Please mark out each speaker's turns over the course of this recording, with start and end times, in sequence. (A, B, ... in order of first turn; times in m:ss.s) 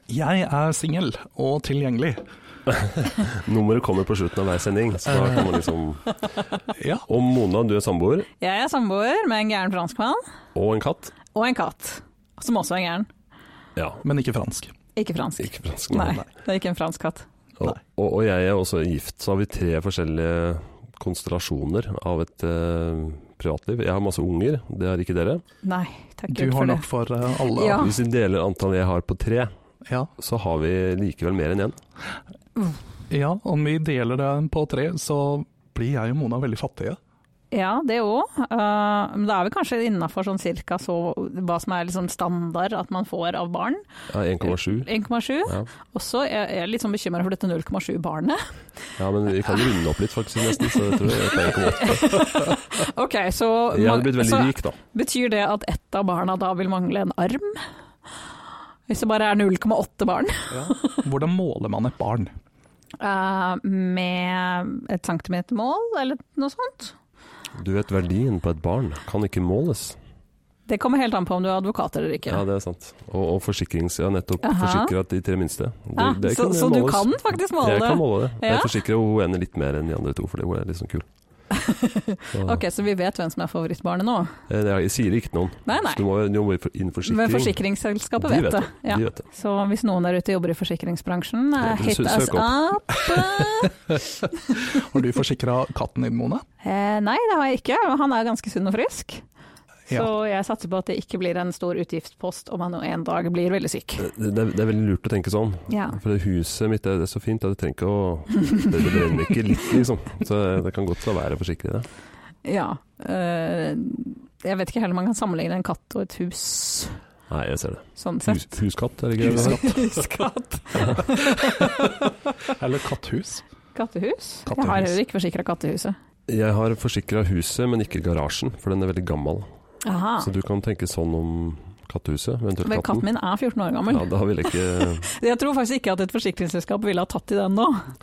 0:00.1-0:02.2 A
0:03.1-0:06.2 B
0:05.1-0:05.5 A
0:06.7-0:07.0 A
0:07.1-0:08.3 B
0:08.4-0:10.2 C
0:10.5-0:11.1 B
0:11.3-0:13.1 C
0:13.8-0:14.0 B
0:14.0-0:14.7 A
0:15.0-0:17.2 C
0:15.4-0:16.2 B
0:17.6-0:25.4 B
0:25.6-0:26.8 C
0:26.3-0:27.9 A
0:27.5-0:27.9 C
0:27.7-0:29.5 B
0:30.2-0:31.8 B
0:33.1-0:37.0 A
0:37.5-0:43.8 C
0:44.1-0:44.9 B
0:44.4-0:48.5 C
0:49.0-0:52.2 B
0:51.5-0:57.6 C
0:53.7-0:54.8 B
0:58.9-1:00.9 C
1:00.5-1:02.3 A
1:03.0-1:06.9 C
1:07.6-1:10.0 B
1:10.7-1:12.4 C
1:12.3-1:21.0 B
1:14.4-1:14.9 C
1:16.0-1:18.7 C
1:21.5-1:24.3 C
1:22.3-1:22.6 B
1:24.5-1:27.6 B
1:25.6-1:26.0 C
1:27.0-1:33.7 C
1:28.2-1:29.2 B
1:31.6-1:32.6 B
1:34.7-1:36.4 A
1:36.6-1:39.2 C
1:39.9-1:44.0 C
1:44.0-1:51.9 B
1:45.7-1:46.0 C
1:52.4-1:57.0 C
1:57.3-1:59.7 B
1:58.0-1:58.5 C
1:59.2-1:59.8 A
1:59.3-2:01.6 C
2:02.5-2:03.4 A
2:03.7-2:05.9 C
2:04.4-2:05.0 A
2:06.3-2:09.4 B
2:09.8-2:10.3 C
2:10.2-2:13.1 B
2:12.6-2:17.9 C
2:13.9-2:15.0 B